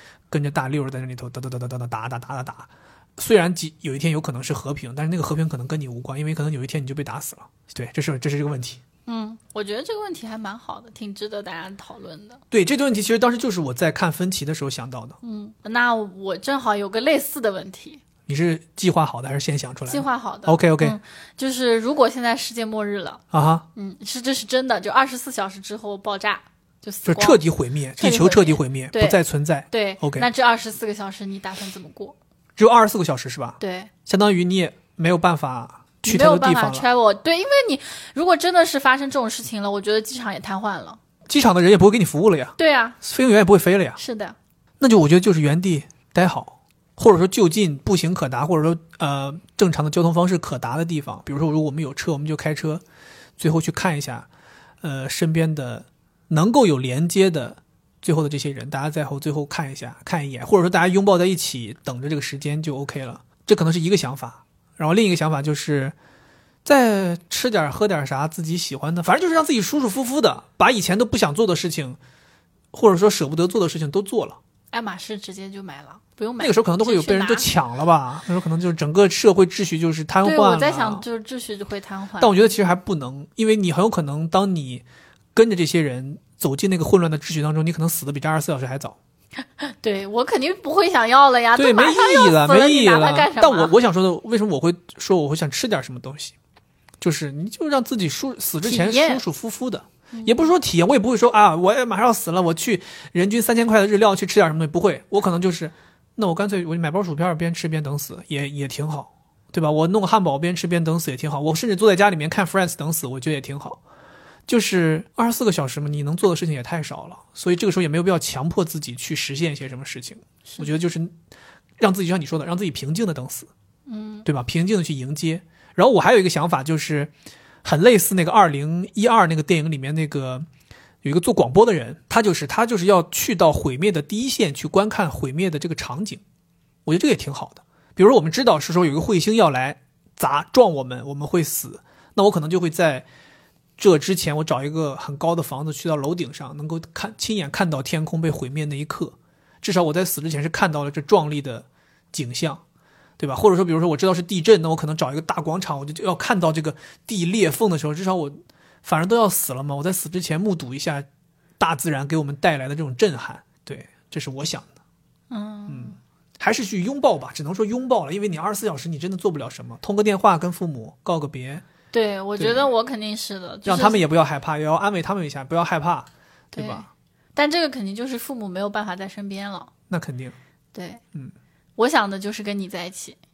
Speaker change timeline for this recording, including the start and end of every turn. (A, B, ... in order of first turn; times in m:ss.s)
0:00.3-0:08.8 A
0:09.0-0:12.4 B
0:12.5-0:15.2 A
0:15.2-0:18.0 B
0:18.3-0:21.0 A
0:19.9-0:23.2 B
0:23.3-0:23.6 A
0:23.7-0:27.4 B
0:27.0-0:30.3 A
0:28.0-0:32.2 B
0:32.6-0:36.8 A
0:33.6-0:33.9 B
0:36.0-0:41.0 B
0:41.3-0:44.0 A
0:42.6-0:43.0 B
0:44.0-0:44.4 B
0:44.8-0:52.8 A
0:53.4-0:54.3 A
0:54.8-1:06.0 A
1:06.6-1:12.0 A
1:12.7-1:14.4 A
1:14.7-1:17.5 B
1:16.4-1:21.0 A
1:20.2-1:22.4 B
1:22.2-1:29.0 A
1:29.6-1:33.7 B
1:31.6-1:36.3 A
1:37.0-1:53.8 A
1:38.6-1:39.2 B
1:40.1-1:40.5 B
1:54.5-2:01.1 A
2:01.8-2:03.5 A
2:03.9-2:04.2 B
2:04.2-2:07.1 A
2:07.6-2:10.4 A
2:11.0-2:16.2 A
2:16.8-2:23.0 A
2:23.8-2:32.6 A
2:33.2-2:41.0 A
2:41.6-2:44.7 A
2:45.3-2:46.0 B
2:45.7-2:51.6 A
2:51.9-2:54.0 B
2:52.4-2:52.7 A
2:53.6-2:56.9 A
2:56.5-2:59.7 B
2:59.9-3:00.4 A
3:00.7-3:01.0 B
3:01.8-3:03.2 B